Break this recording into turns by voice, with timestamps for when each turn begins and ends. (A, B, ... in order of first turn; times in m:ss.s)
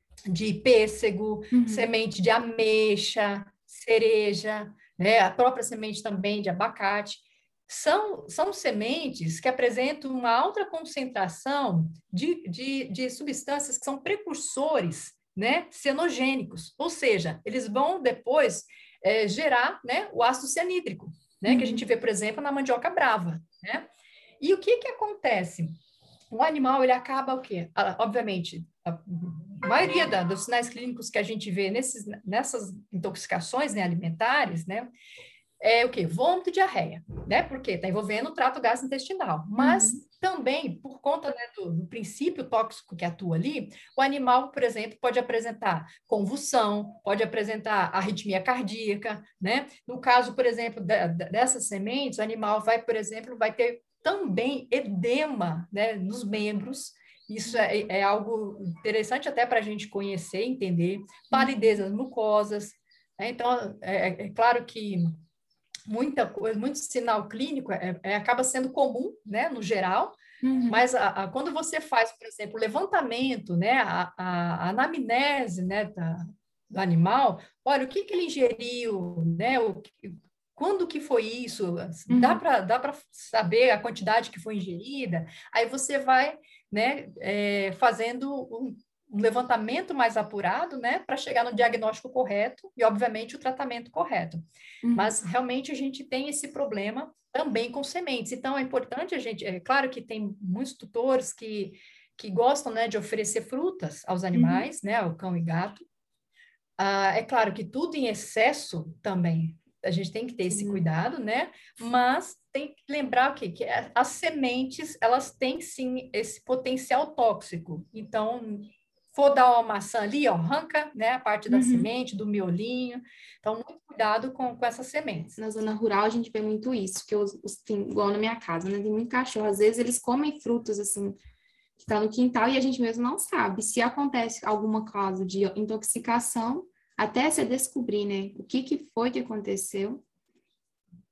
0:00.3-0:23.9 A
0:01.5-0:01.9 B
0:21.5-0:21.8 B
0:24.4-0:25.7 A
0:26.3-0:34.9 A
0:35.6-1:05.2 A
0:39.6-0:40.0 B
0:57.4-0:57.8 B
1:01.3-1:01.8 B
1:05.9-1:10.2 A
1:10.4-1:10.8 B
1:10.7-1:34.4 A
1:22.1-1:22.4 B
1:34.8-1:35.1 B
1:34.9-1:45.8 A
1:44.3-1:44.7 B
1:46.8-2:05.4 A
1:50.5-1:50.8 B
2:01.5-2:01.9 B
2:05.4-2:11.2 B
2:11.8-2:20.0 B